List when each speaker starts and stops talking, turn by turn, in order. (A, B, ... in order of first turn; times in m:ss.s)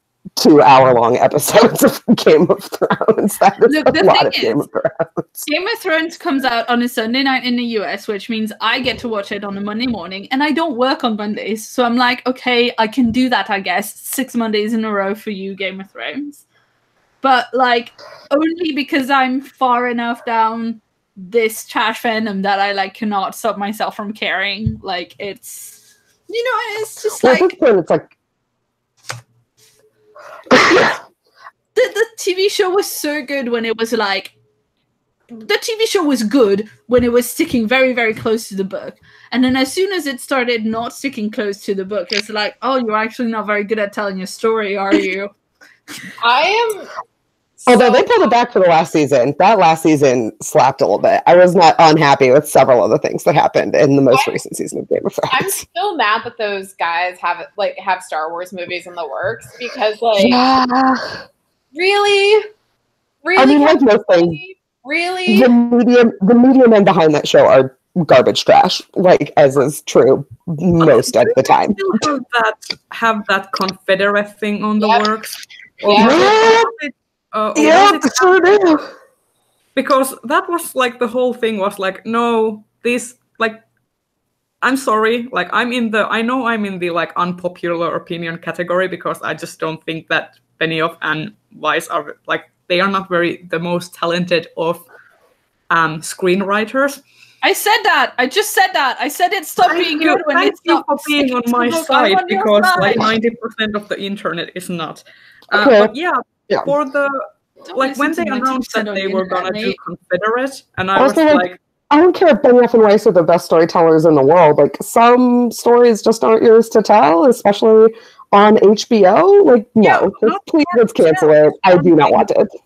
0:00.4-0:05.4 A
0:03.7-0:04.6 B
0:05.4-0:16.4 B
0:17.2-0:27.6 B
0:27.2-0:28.1 A
0:30.5-0:31.0 A
0:30.6-0:30.9 B
0:31.8-0:34.3 B
0:35.3-0:45.3 B
0:46.2-0:46.9 C
0:47.6-0:48.3 C
0:47.7-0:55.6 A
0:55.3-1:00.4 C
1:00.2-1:01.2 A
1:01.8-1:02.5 C
1:03.2-1:05.6 C
1:03.4-1:04.4 A
1:05.3-1:12.0 A
1:10.8-1:18.6 D
1:14.8-1:15.0 C
1:15.9-1:16.4 C
1:15.9-1:16.7 A
1:17.6-1:18.9 A
1:19.8-1:23.6 D
1:24.6-1:34.8 D
1:35.7-1:37.0 D
1:37.4-1:43.1 B
1:39.6-1:51.6 D
1:45.5-1:45.9 A
1:47.7-1:49.8 B
1:51.0-2:02.5 A
1:59.8-2:02.3 D